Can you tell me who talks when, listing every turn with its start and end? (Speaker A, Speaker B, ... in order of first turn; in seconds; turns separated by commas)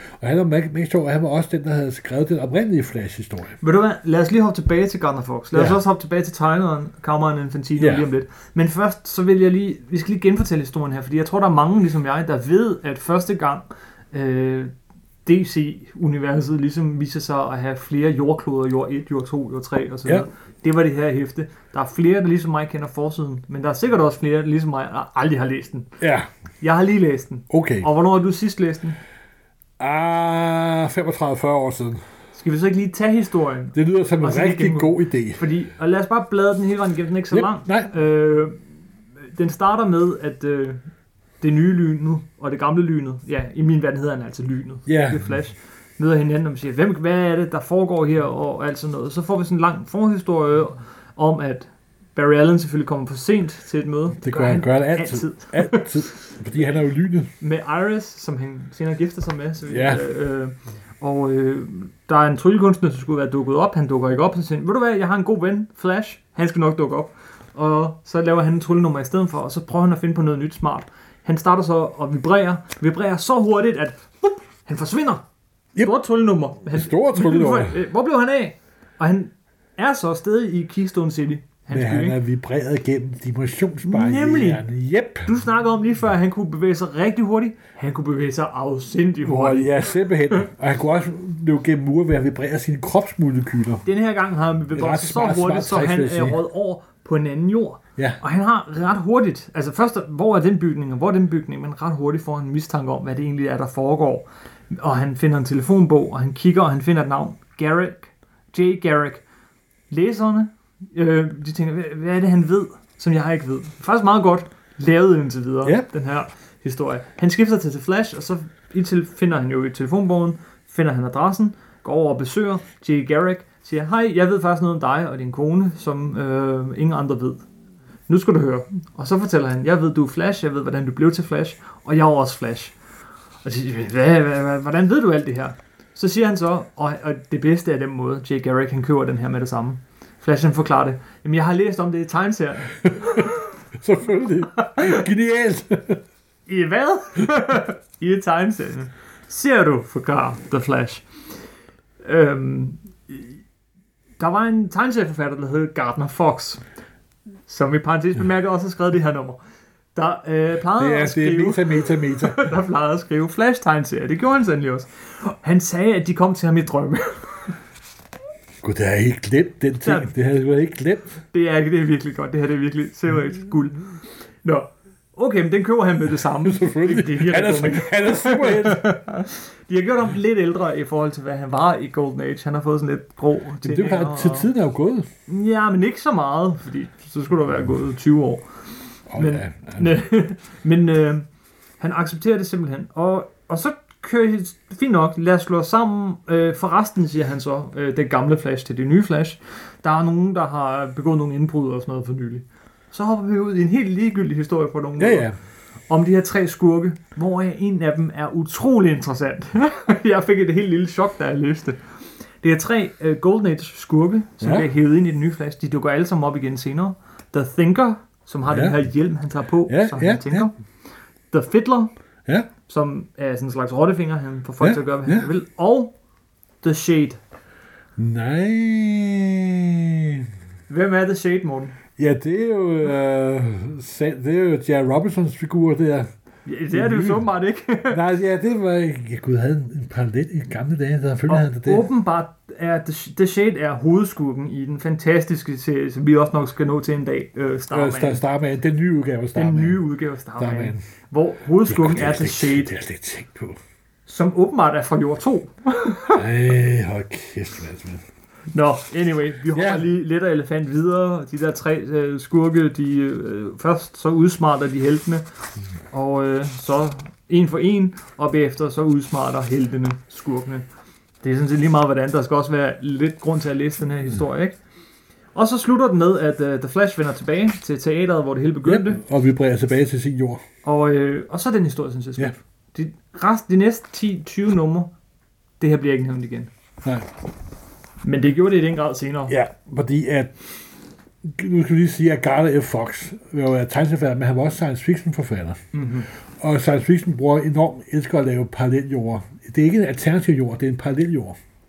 Speaker A: 0.2-3.6, Speaker B: 3.6-14.7, Speaker A: 5.5-5.8, Speaker A: 7.8-8.0, Speaker B: 15.2-25.9, Speaker A: 26.0-26.3, Speaker B: 26.6-29.0, Speaker A: 27.5-27.9, Speaker A: 29.8-32.0, Speaker B: 32.3-38.5, Speaker A: 33.7-35.4, Speaker A: 37.3-37.9, Speaker B: 39.3-40.8, Speaker B: 41.4-56.4, Speaker A: 44.9-45.3, Speaker A: 54.2-57.3, Speaker B: 57.4-75.2, Speaker A: 59.7-60.0, Speaker B: 75.8-82.2, Speaker A: 76.7-77.8, Speaker A: 81.7-85.3, Speaker B: 83.8-84.6, Speaker B: 85.2-90.5, Speaker A: 89.2-93.8, Speaker B: 93.8-109.2, Speaker A: 94.7-96.4, Speaker B: 109.9-127.4, Speaker B: 128.1-132.7, Speaker B: 133.4-143.5, Speaker A: 142.8-146.0, Speaker B: 144.6-145.0, Speaker B: 146.5-151.0, Speaker B: 152.0-153.3, Speaker B: 154.2-156.6, Speaker B: 157.5-159.4, Speaker B: 159.9-167.5, Speaker A: 160.8-162.5, Speaker A: 168.6-171.2, Speaker B: 169.8-170.1, Speaker B: 171.3-173.8, Speaker B: 174.4-184.5, Speaker A: 176.4-178.9, Speaker A: 183.6-185.1, Speaker B: 185.3-188.5, Speaker A: 189.1-190.0, Speaker B: 189.2-191.2, Speaker B: 191.8-205.3, Speaker A: 205.0-205.3, Speaker B: 205.9-211.8, Speaker B: 212.4-220.5, Speaker A: 214.4-214.7, Speaker A: 218.5-218.8, Speaker A: 219.7-220.5, Speaker B: 221.3-221.9, Speaker B: 222.7-225.9, Speaker A: 224.6-225.3, Speaker B: 226.6-227.2, Speaker A: 228.0-230.3, Speaker B: 230.7-231.8, Speaker A: 232.0-236.1, Speaker B: 236.4-238.0, Speaker A: 236.7-237.3, Speaker A: 237.9-241.9, Speaker B: 241.3-248.2, Speaker A: 247.7-249.8, Speaker B: 249.3-252.7, Speaker A: 250.4-250.8, Speaker A: 251.7-253.6, Speaker B: 254.1-256.2, Speaker A: 256.1-258.0, Speaker B: 258.5-265.2, Speaker A: 259.5-259.9, Speaker B: 265.9-270.6, Speaker B: 271.2-274.6, Speaker B: 275.3-279.0, Speaker A: 278.6-280.4, Speaker B: 280.6-284.9, Speaker B: 285.6-286.5, Speaker A: 286.8-287.1, Speaker B: 288.0-289.4, Speaker A: 289.3-290.3, Speaker A: 291.2-295.6, Speaker B: 295.7-296.1, Speaker A: 296.4-301.4